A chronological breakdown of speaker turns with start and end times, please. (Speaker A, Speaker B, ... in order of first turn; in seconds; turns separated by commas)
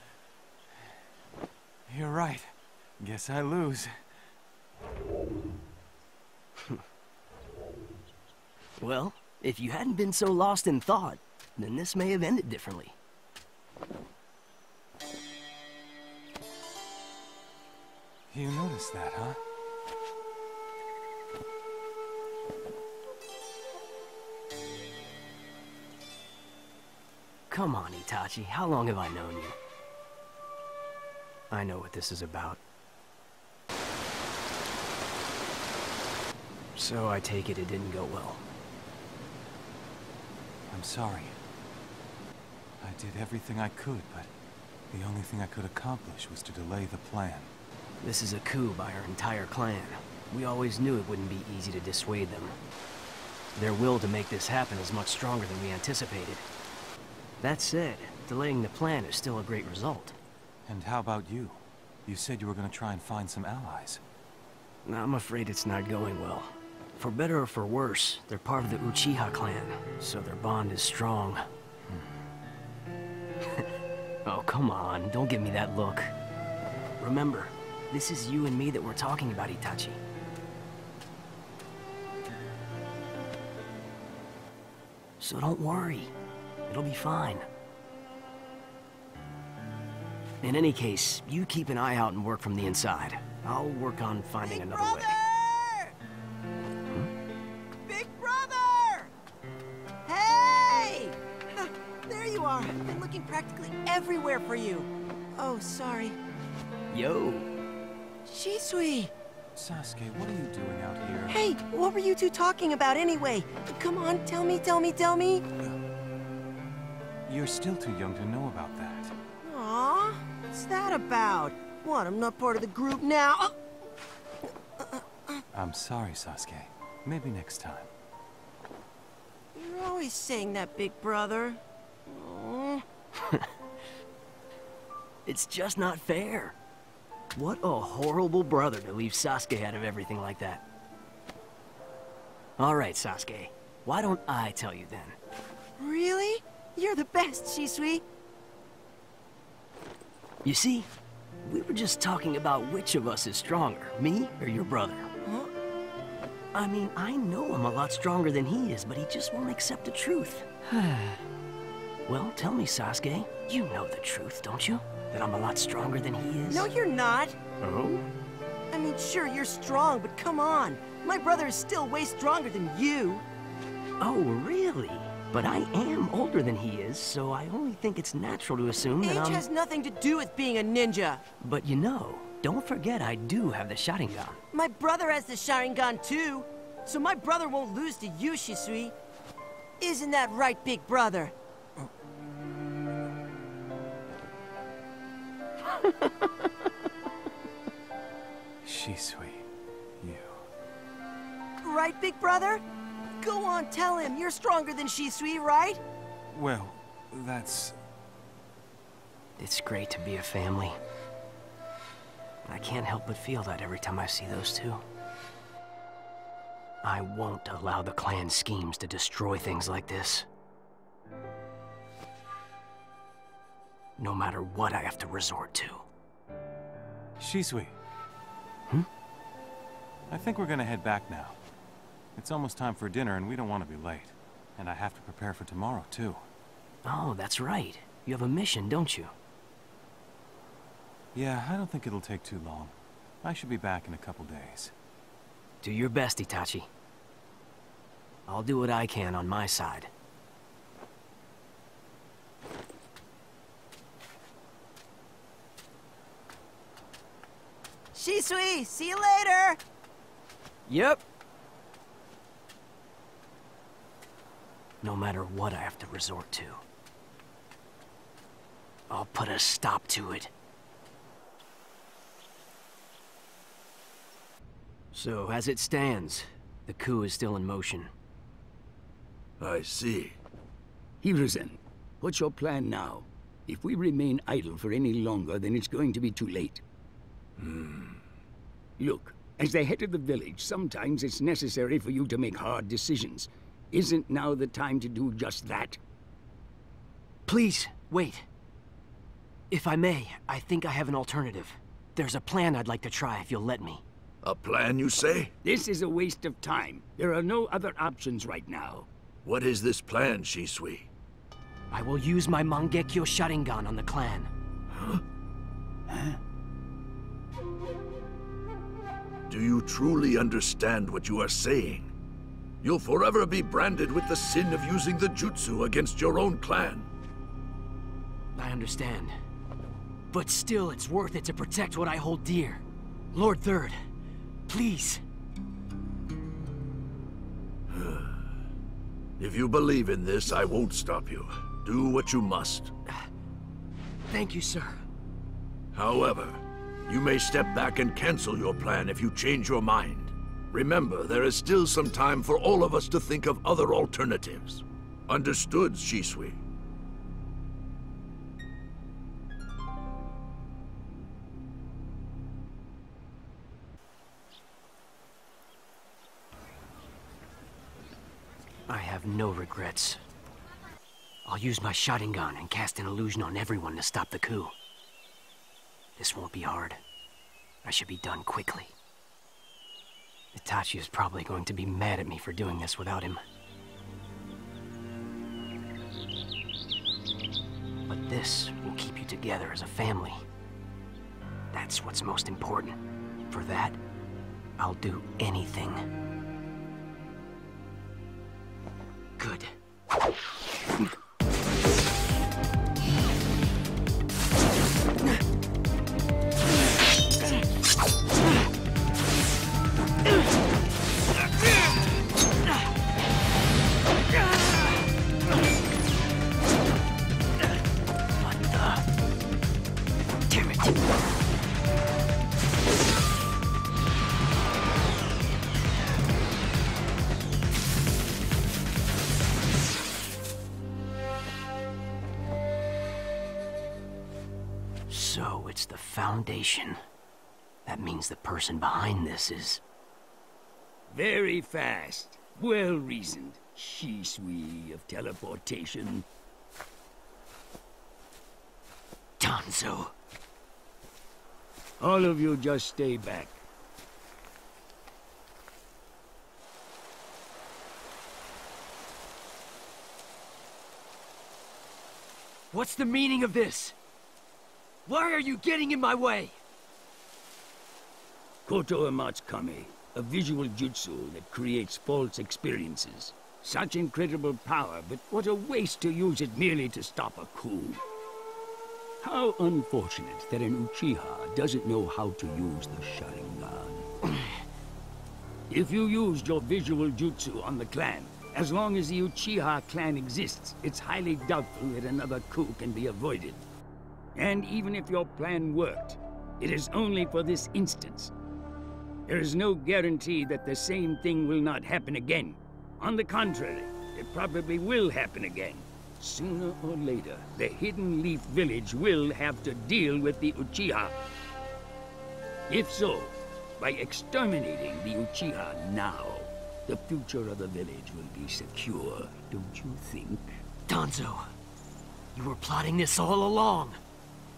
Speaker A: 1.9-3.9, Speaker B: 8.8-13.0, Speaker A: 18.3-19.4, Speaker B: 27.5-29.6, Speaker B: 31.5-32.6, Speaker B: 36.7-38.4, Speaker A: 40.7-41.4, Speaker A: 42.8-44.3, Speaker A: 44.9-47.5, Speaker B: 48.0-52.5, Speaker B: 53.5-56.4, Speaker B: 57.4-60.1, Speaker A: 60.7-64.0, Speaker B: 64.8-71.4, Speaker B: 74.2-76.1, Speaker B: 77.0-80.0, Speaker B: 85.2-86.1, Speaker B: 86.7-87.4, Speaker B: 90.4-95.2, Speaker C: 94.4-95.9, Speaker C: 97.9-99.1, Speaker C: 100.0-106.2, Speaker B: 106.9-107.5, Speaker C: 108.2-109.1, Speaker A: 109.5-111.4, Speaker C: 111.3-115.4, Speaker A: 117.3-119.1, Speaker C: 119.4-123.5, Speaker C: 124.9-125.4, Speaker A: 125.5-127.9, Speaker C: 129.5-132.8, Speaker B: 135.2-136.6, Speaker B: 137.3-140.6, Speaker B: 142.6-145.2, Speaker C: 145.8-148.0, Speaker B: 150.4-150.9, Speaker B: 151.4-155.1, Speaker B: 156.5-161.2, Speaker B: 162.1-166.7, Speaker C: 166.5-167.3, Speaker B: 167.6-168.0, Speaker C: 168.7-173.2, Speaker B: 174.0-179.4, Speaker C: 179.0-181.2, Speaker B: 181.4-184.4, Speaker C: 184.5-188.9, Speaker C: 189.8-191.3, Speaker A: 198.6-199.4, Speaker A: 200.0-200.4, Speaker C: 201.6-202.6, Speaker C: 203.2-205.8, Speaker A: 206.3-207.8, Speaker B: 209.4-210.8, Speaker B: 212.4-214.8, Speaker B: 216.8-220.2, Speaker B: 224.0-225.8, Speaker A: 227.2-227.8, Speaker A: 230.1-231.4, Speaker A: 232.2-236.2, Speaker B: 236.8-239.1, Speaker A: 241.1-244.7, Speaker B: 245.6-246.7, Speaker B: 248.3-249.9, Speaker C: 257.9-259.6, Speaker B: 260.7-261.0, Speaker B: 264.8-266.6, Speaker B: 268.9-270.3, Speaker B: 274.9-277.9, Speaker D: 279.4-280.1, Speaker E: 281.0-286.6, Speaker D: 287.4-288.0, Speaker E: 288.8-295.8, Speaker B: 297.3-298.2, Speaker B: 299.5-303.8, Speaker D: 304.2-305.3, Speaker E: 305.4-308.9, Speaker D: 309.2-310.9, Speaker B: 311.7-314.3, Speaker D: 319.3-321.9, Speaker D: 322.6-326.9, Speaker B: 328.3-329.1, Speaker B: 330.1-333.8, Speaker B: 334.5-335.0, Speaker D: 337.7-338.1, Speaker D: 339.2-342.7, Speaker B: 344.1-344.8, Speaker D: 345.7-356.4, Speaker B: 368.7-370.0, Speaker B: 371.2-374.5, Speaker B: 376.0-376.8, Speaker B: 377.6-378.7, Speaker B: 380.3-383.2, Speaker B: 387.9-390.2, Speaker B: 391.5-392.8, Speaker B: 393.3-393.8, Speaker B: 394.6-395.8, Speaker B: 399.2-399.5, Speaker B: 418.2-418.8, Speaker B: 420.3-420.7, Speaker B: 434.9-436.8, Speaker B: 437.6-439.6, Speaker E: 440.9-446.1, Speaker B: 449.2-449.9, Speaker E: 451.8-453.4, Speaker B: 462.5-463.7, Speaker B: 464.9-466.4, Speaker E: 468.4-477.8, Speaker E: 479.0-483.9, Speaker E: 485.5-493.4, Speaker E: 494.1-498.1, Speaker E: 499.1-510.9, Speaker E: 512.5-520.4, Speaker B: 520.7-521.2, Speaker B: 522.1-523.8